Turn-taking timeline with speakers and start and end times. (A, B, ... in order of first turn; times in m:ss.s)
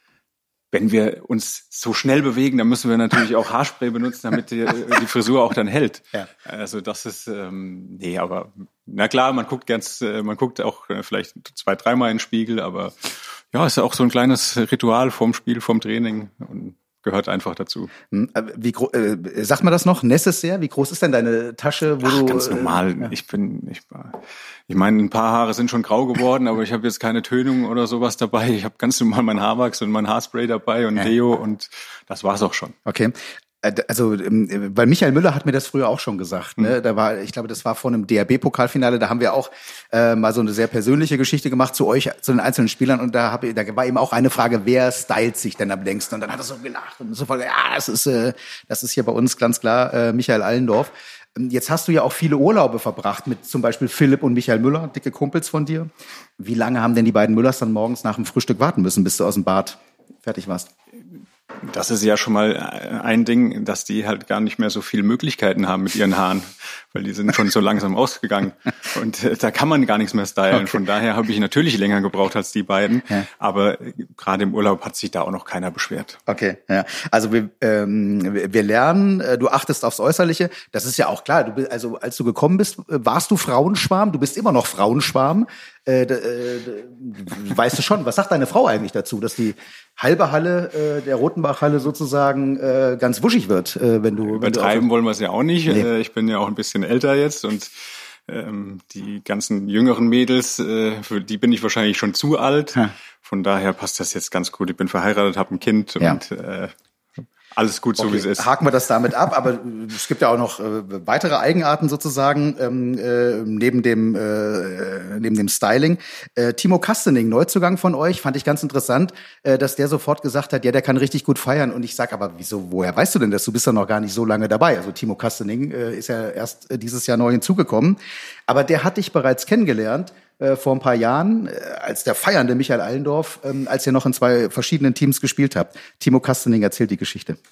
0:00.7-0:17.9 A
0:18.1-0:23.1 B
0:22.0-0:32.8 A
0:32.9-1:00.7 B
1:01.6-1:16.2 A
1:12.9-1:13.3 B
1:16.3-1:34.9 B
1:34.3-1:37.7 A
1:38.3-1:46.7 A
1:47.6-1:48.5 A
1:48.0-2:17.4 B